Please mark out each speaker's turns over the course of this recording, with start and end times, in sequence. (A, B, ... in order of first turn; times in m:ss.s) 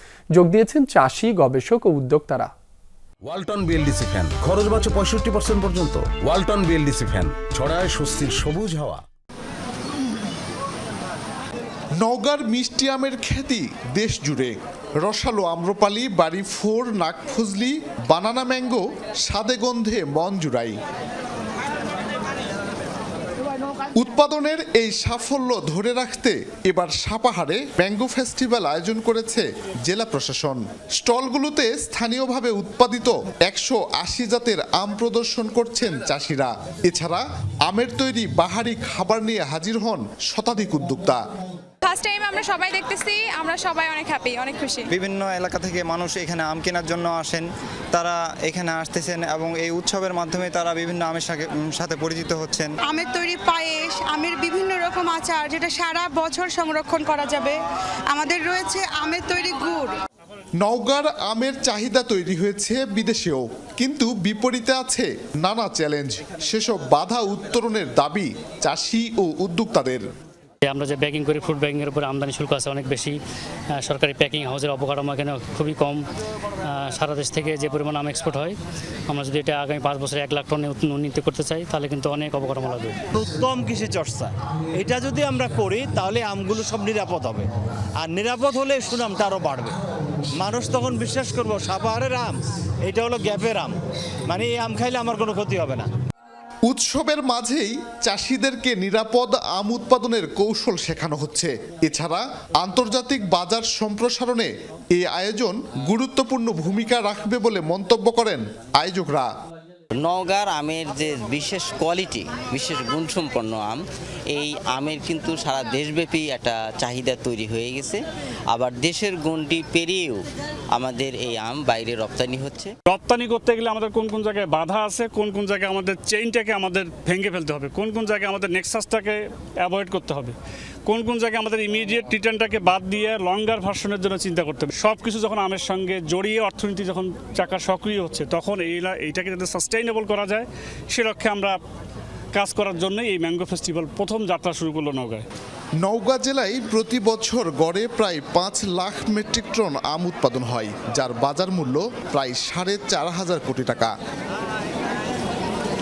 0:00.4-0:02.5 A
0:03.2-0:09.0 B
0:12.0-0:20.8 C
0:24.0-0:41.2 C
0:41.8-0:44.9 D
0:44.9-0:52.8 E
0:52.9-0:57.6 F
0:58.1-0:59.9 F
1:00.6-1:10.0 C
1:10.6-1:13.2 G
1:13.8-1:16.0 G
1:16.7-1:18.6 G
1:19.1-1:22.9 G
1:23.2-1:27.5 H
1:28.0-1:29.8 H
1:30.4-1:33.8 H
1:34.3-1:35.9 H
1:36.7-1:49.3 C
1:50.0-1:58.0 I
1:58.5-2:00.2 I
2:00.7-2:02.7 I
2:02.9-2:10.4 J
2:10.9-2:21.6 J
2:22.4-2:25.2 J
2:25.8-2:33.9 C